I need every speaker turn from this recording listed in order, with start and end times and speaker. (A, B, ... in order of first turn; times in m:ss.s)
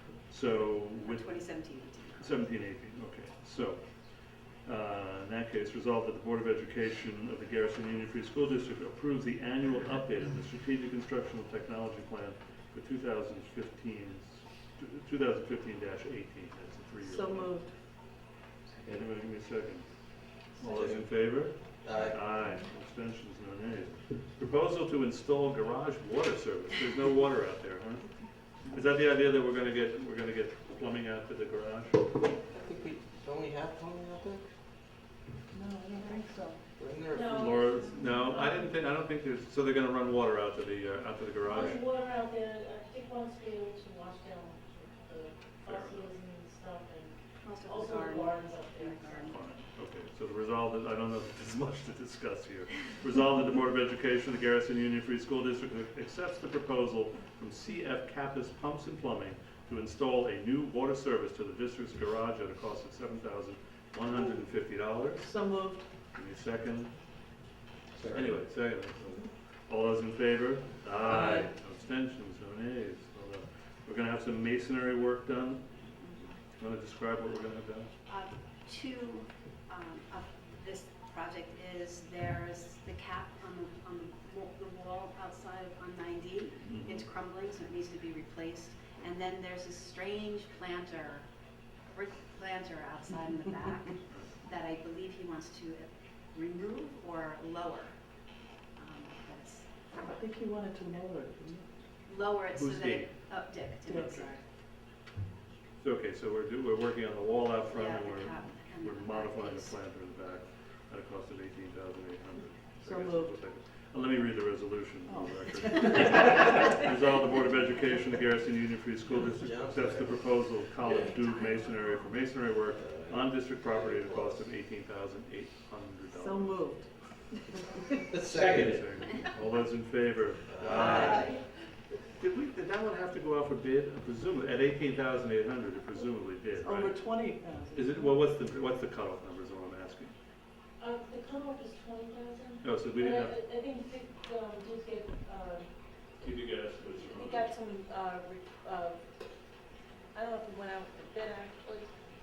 0:00.3-0:01.5 A
0:01.0-0:02.5 B
0:02.2-0:03.8 A
0:04.7-0:17.5 A
0:17.0-0:17.7 C
0:18.8-0:19.9 A
0:20.6-0:28.1 A
0:20.6-0:21.0 D
0:21.8-0:22.2 D
0:28.7-0:32.0 A
0:32.6-0:34.4 D
0:35.5-0:36.6 C
0:36.8-0:37.5 D
0:37.1-0:38.7 E
0:37.2-0:41.8 A
0:41.4-0:49.4 E
0:45.6-0:46.1 A
0:47.4-0:49.4 B
0:49.3-1:05.3 A
1:05.2-1:05.8 C
1:06.1-1:06.9 A
1:08.0-1:08.4 D
1:08.1-1:15.6 A
1:11.0-1:11.5 C
1:16.0-1:16.3 B
1:16.6-1:17.9 A
1:18.1-1:31.2 B
1:26.6-1:27.1 A
1:31.9-1:37.9 B
1:38.8-1:39.7 B
1:40.0-1:41.6 C
1:42.1-1:44.4 B
1:42.5-1:43.1 A
1:43.9-1:44.4 C
1:45.8-2:06.6 A
1:47.7-1:49.8 B
1:52.8-1:53.3 C
1:55.1-1:56.6 C
1:59.0-2:01.2 D
2:01.4-2:01.8 B
2:02.7-2:04.4 D
2:06.1-2:06.9 C
2:08.1-2:09.0 D
2:08.2-2:11.3 A
2:10.5-2:11.4 D
2:10.9-2:11.2 E
2:12.1-2:17.0 A
2:16.6-2:18.2 C
2:17.8-2:20.1 A
2:20.8-2:25.7 E
2:22.6-2:23.4 A
2:26.2-2:27.5 A
2:27.0-2:29.0 E
2:30.1-2:31.9 E